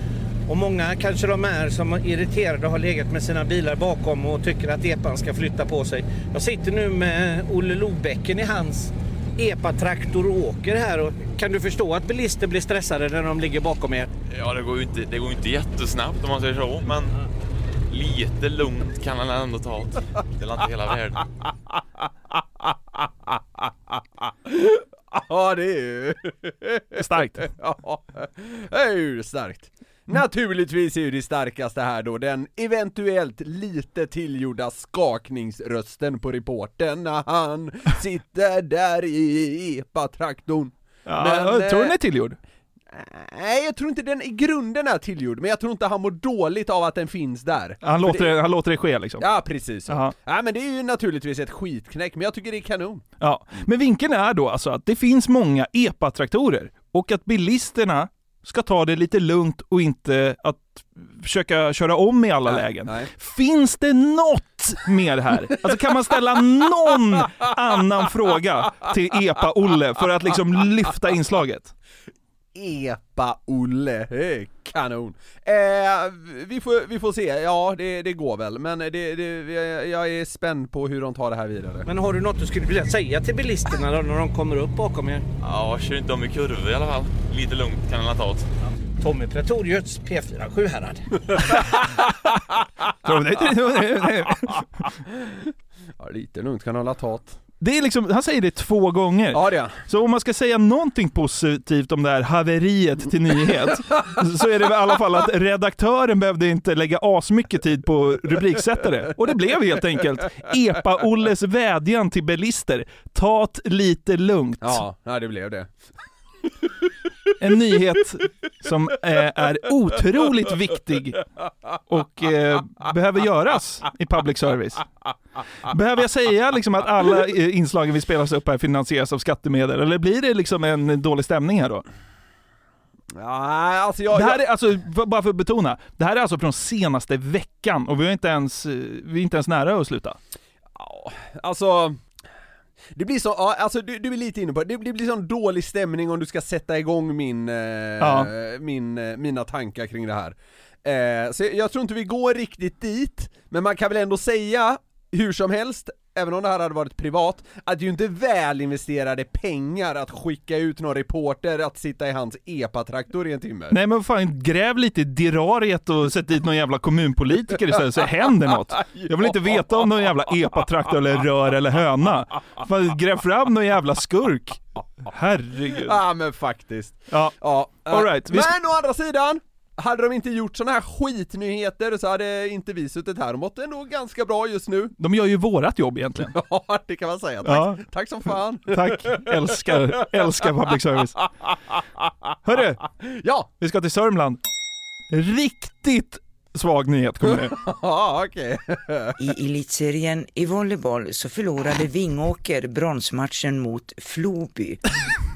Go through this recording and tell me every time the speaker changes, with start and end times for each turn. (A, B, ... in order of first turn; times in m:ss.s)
0:00.5-0:14.1 A
0:14.3-0:17.1 B
0:17.9-0:21.2 B
0:23.6-0:42.0 C
0:27.0-0:27.5 D
0:41.1-0:42.4 D
0:42.9-0:48.3 C
0:47.8-0:49.2 D
0:49.2-0:53.1 C
0:49.9-0:50.1 D
0:53.2-1:11.7 D
1:02.5-1:03.1 C
1:12.6-1:21.9 C
1:21.9-1:25.3 A
1:25.4-1:28.5 B
1:29.0-1:31.1 A
1:33.0-1:34.6 D
1:35.1-1:35.4 C
1:36.0-1:37.4 C
1:37.6-1:54.8 D
1:39.3-1:39.8 C
1:54.6-1:55.7 C
1:57.4-2:01.2 D
2:01.9-2:04.8 D
2:05.7-2:11.8 D
2:13.2-2:14.4 C
2:14.1-2:20.2 D
2:20.8-2:22.0 C
2:22.9-2:43.8 C
2:28.0-2:28.3 D
2:43.7-2:56.0 D
2:48.9-2:50.0 C
2:55.8-3:04.9 C
2:57.9-2:58.5 D
3:05.0-3:06.3 D
3:06.2-3:10.4 C
3:07.4-3:07.8 D
3:08.7-3:11.1 D
3:12.4-3:12.8 D
3:13.0-3:13.5 C
3:13.6-3:14.4 D
3:15.1-3:17.5 D
3:17.3-3:19.2 C
3:19.2-3:24.8 E